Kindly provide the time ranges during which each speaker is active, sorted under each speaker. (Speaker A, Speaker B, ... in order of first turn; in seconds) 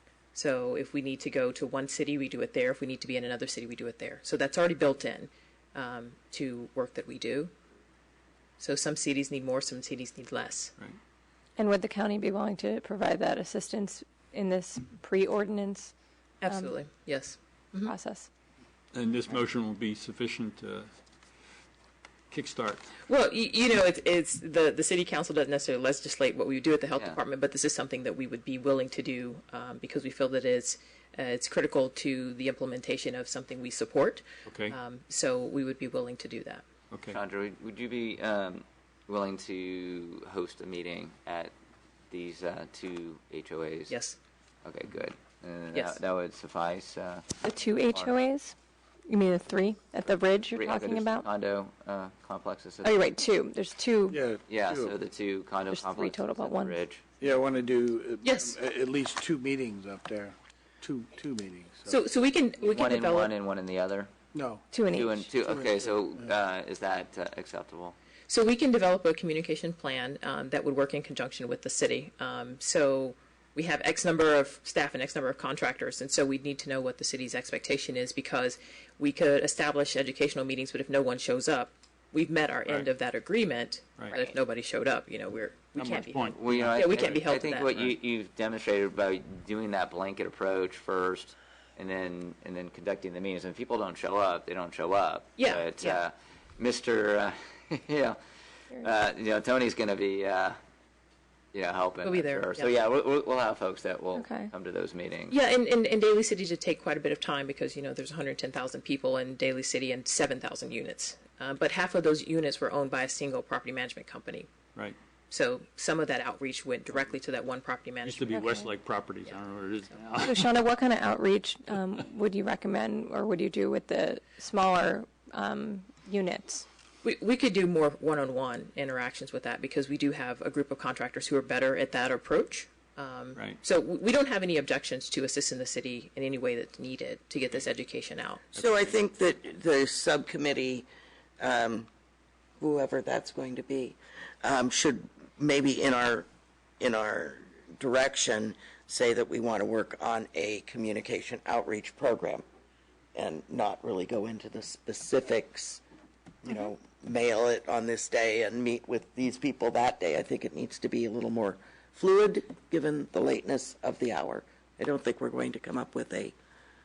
Speaker A: 0.3-7.5, 8.6-10.7, 16.4-17.9, 23.1-36.6, 43.9-44.2, 45.7-46.0, 58.2-58.5, 61.9-63.3, 68.3-87.7, 95.4-96.0, 102.0-102.7, 105.3-114.5, 115.3-118.5, 127.0-138.7
Speaker B: 11.6-15.9, 16.5-16.8, 17.9-18.3, 47.4-48.6, 49.1-51.3, 52.8-54.2, 55.7-56.8, 64.7-65.2, 104.1-104.5, 118.3-118.7, 120.2-126.7
Speaker C: 18.9-20.9, 22.3-22.9, 34.5-34.8, 36.9-37.2, 85.8-87.2, 118.0-120.5
Speaker D: 37.1-41.5, 42.1-44.0, 44.6-47.3, 50.5-52.9, 54.5-57.0, 62.6-64.1, 64.9-68.0, 86.3-98.2, 98.7-100.6, 101.5-105.4
Speaker E: 54.1-54.9, 57.2-62.0, 64.3-64.7, 65.4-66.3
Speaker F: 138.6-140.9, 141.4-141.9, 142.6-146.3, 146.8-152.4, 153.2-155.8, 156.4-166.3